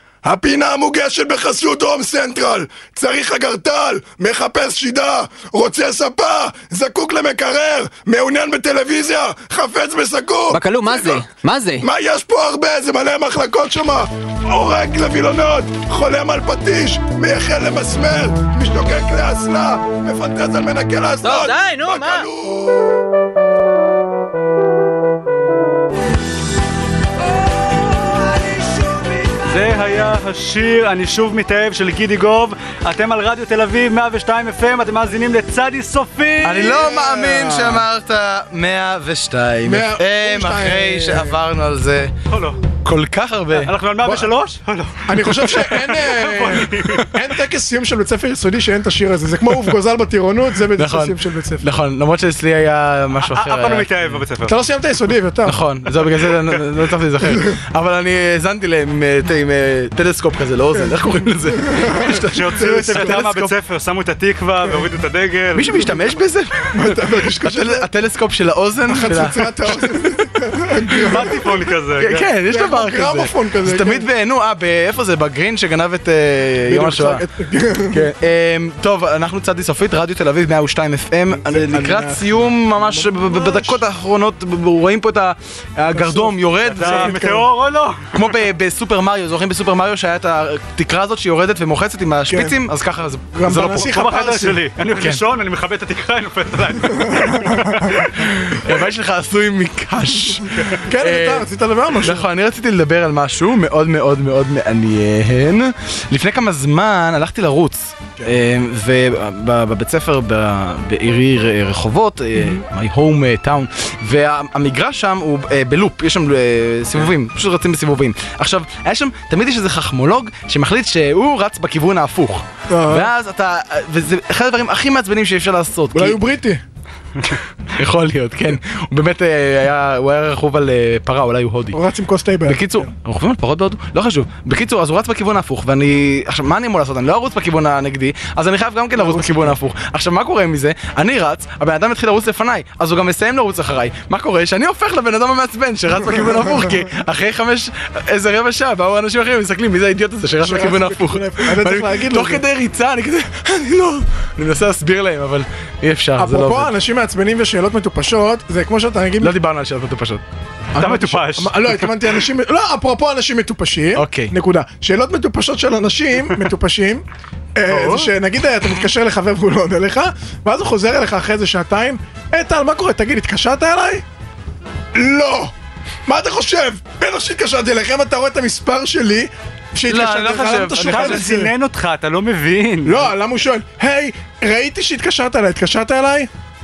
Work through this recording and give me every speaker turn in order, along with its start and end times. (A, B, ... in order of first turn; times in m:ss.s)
0:00.2-0:11.2 A
0:10.5-0:11.8 B
0:11.8-0:23.0 A
0:21.2-0:22.3 B
0:28.8-0:36.8 C
0:36.4-0:42.1 D
0:36.6-0:37.8 A
0:39.6-0:41.4 A
0:42.3-0:42.6 C
0:42.8-0:43.7 D
0:43.5-0:47.1 C
0:44.0-0:44.3 A
0:45.1-0:51.6 A
0:50.7-0:54.2 D
0:53.2-0:54.6 C
0:54.4-0:55.6 A
0:55.4-1:03.5 D
1:01.7-1:03.2 A
1:02.2-1:05.9 C
1:05.5-1:10.2 D
1:06.7-1:07.9 A
1:08.8-1:11.5 A
1:10.9-1:12.2 C
1:12.0-1:17.2 D
1:12.1-1:14.1 A
1:16.7-1:18.0 A
1:17.9-1:27.2 D
1:21.4-1:23.8 A
1:25.9-1:27.5 A
1:26.7-1:28.1 C
1:28.1-1:33.9 D
1:32.3-1:32.6 A
1:33.3-1:34.6 A
1:33.7-1:38.1 C
1:35.0-1:35.2 D
1:37.0-1:37.8 A
1:38.2-1:41.5 D
1:40.5-1:42.3 A
1:42.0-2:06.2 D
2:02.7-2:03.1 A
2:05.9-2:06.6 A
2:07.8-2:11.8 D
2:11.7-2:12.9 A
2:12.4-2:36.7 D
2:19.0-2:19.6 A
2:30.4-2:32.4 A
2:36.2-2:39.4 A
2:39.2-2:40.2 D
2:40.7-2:47.0 A
2:40.8-2:41.7 C
2:43.9-2:44.3 D
2:47.5-2:54.0 A
2:47.7-2:48.1 C
2:54.9-2:55.5 A
2:56.0-3:01.5 A
2:59.9-3:01.3 D
3:00.8-3:03.1 C
3:02.8-3:06.3 A